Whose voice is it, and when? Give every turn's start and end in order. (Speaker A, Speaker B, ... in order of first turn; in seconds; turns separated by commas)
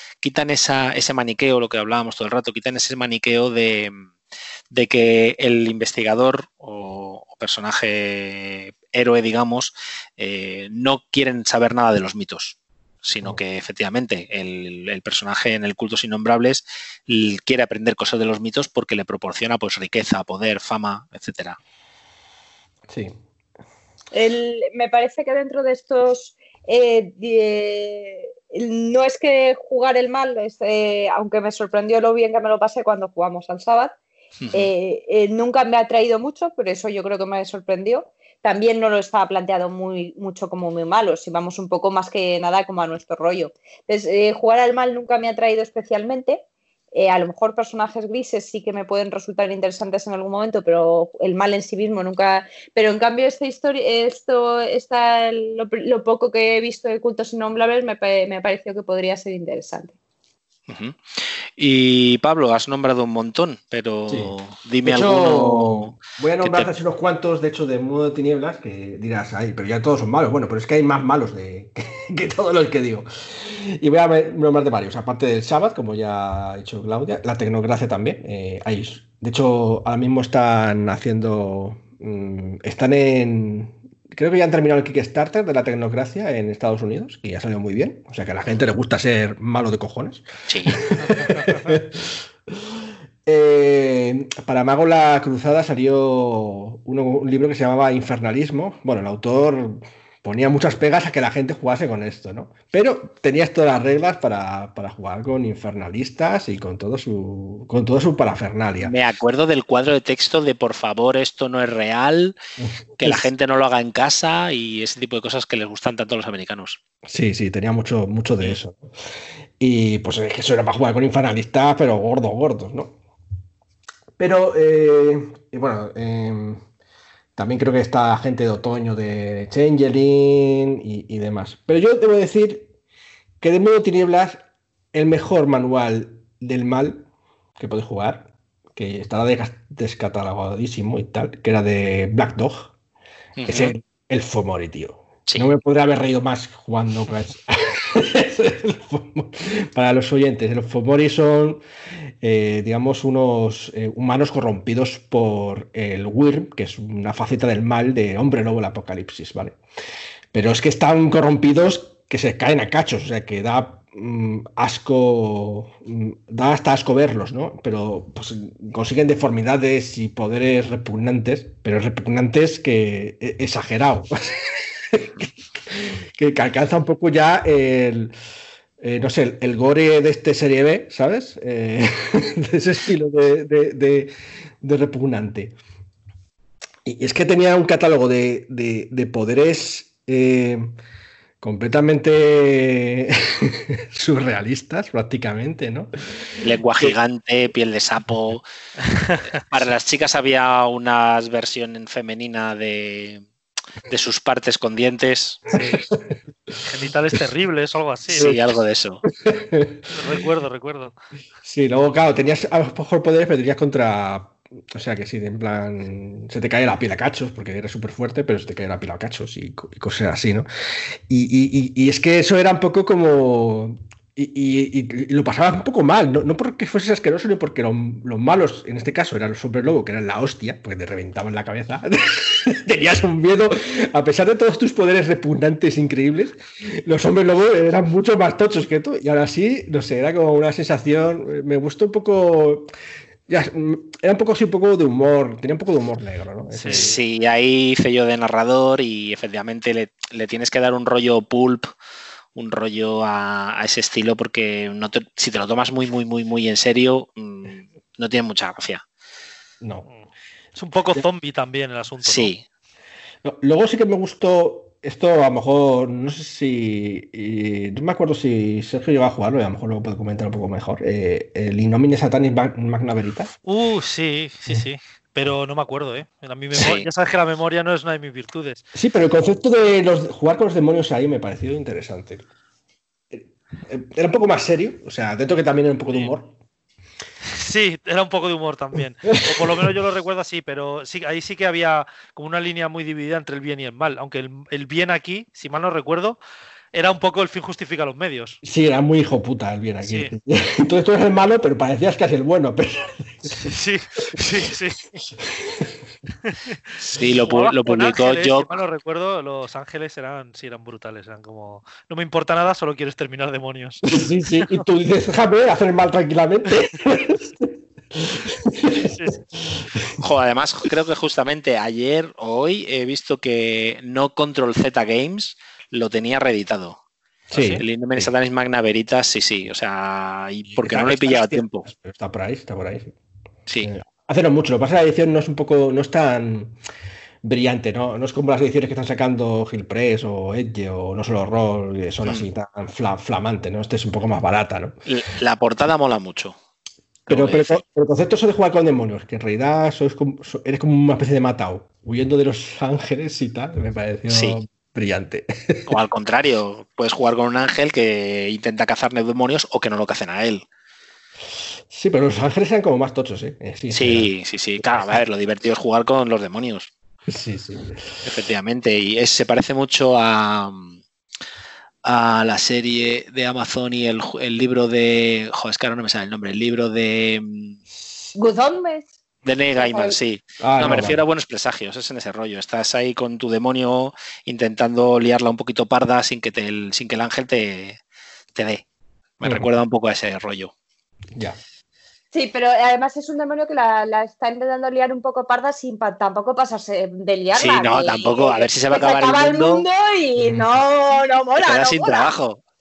Speaker A: 0.2-4.1, Speaker A: 4.7-21.6, Speaker B: 22.9-23.1, Speaker C: 24.1-33.9, Speaker A: 34.4-34.7, Speaker C: 34.5-46.4, Speaker C: 46.9-59.9, Speaker A: 60.7-66.7, Speaker B: 64.1-92.2, Speaker A: 90.5-90.8, Speaker B: 93.2-108.9, Speaker A: 108.8-112.3, Speaker B: 112.6-113.3, Speaker A: 113.0-116.8, Speaker B: 117.1-118.9, Speaker B: 119.6-122.9, Speaker B: 124.2-126.6, Speaker B: 127.4-132.7, Speaker B: 133.4-134.4, Speaker B: 134.9-137.1, Speaker B: 137.6-142.7, Speaker A: 143.4-143.7, Speaker B: 143.4-151.6, Speaker B: 152.2-159.6, Speaker B: 160.3-178.1, Speaker B: 178.8-185.6, Speaker B: 186.8-190.7, Speaker B: 191.4-196.9, Speaker A: 196.4-198.4, Speaker D: 198.8-199.4, Speaker A: 199.5-203.2, Speaker A: 203.9-205.4, Speaker D: 205.5-205.8, Speaker B: 205.6-206.1, Speaker D: 206.7-208.4, Speaker A: 208.1-209.0, Speaker B: 209.1-210.1, Speaker D: 209.9-210.9, Speaker B: 211.4-220.5, Speaker B: 221.1-242.7, Speaker B: 243.3-247.0, Speaker D: 246.5-247.0, Speaker A: 246.7-251.7, Speaker A: 252.3-258.8, Speaker B: 259.6-259.9, Speaker D: 259.8-262.3, Speaker A: 262.0-262.4, Speaker B: 263.2-273.3, Speaker D: 273.4-278.7, Speaker A: 276.5-276.9, Speaker B: 278.7-282.2, Speaker B: 283.1-286.3, Speaker D: 287.2-296.2, Speaker B: 289.1-289.7, Speaker D: 296.7-298.4, Speaker B: 298.4-303.3, Speaker D: 299.8-300.1, Speaker D: 303.3-304.9, Speaker B: 305.2-305.8, Speaker D: 306.2-314.6, Speaker A: 306.9-308.6, Speaker B: 313.9-318.9, Speaker D: 318.8-319.2, Speaker B: 319.5-319.9, Speaker A: 320.0-326.8, Speaker B: 327.3-328.1, Speaker D: 327.3-327.6, Speaker A: 327.6-331.7, Speaker B: 330.5-332.9, Speaker B: 333.6-336.6, Speaker B: 337.2-344.8, Speaker A: 344.9-346.4, Speaker A: 347.1-347.6, Speaker B: 347.1-355.8, Speaker A: 354.1-354.4, Speaker A: 355.7-360.4, Speaker B: 361.7-365.0, Speaker A: 363.7-366.7, Speaker B: 367.1-368.0, Speaker A: 368.0-370.8, Speaker A: 371.8-377.6, Speaker C: 378.1-378.9, Speaker A: 379.2-387.8, Speaker C: 379.6-379.9, Speaker B: 380.4-381.0, Speaker A: 388.3-388.6, Speaker A: 389.2-390.5, Speaker C: 392.1-402.1, Speaker A: 397.3-399.6, Speaker B: 400.2-400.5, Speaker A: 401.4-402.4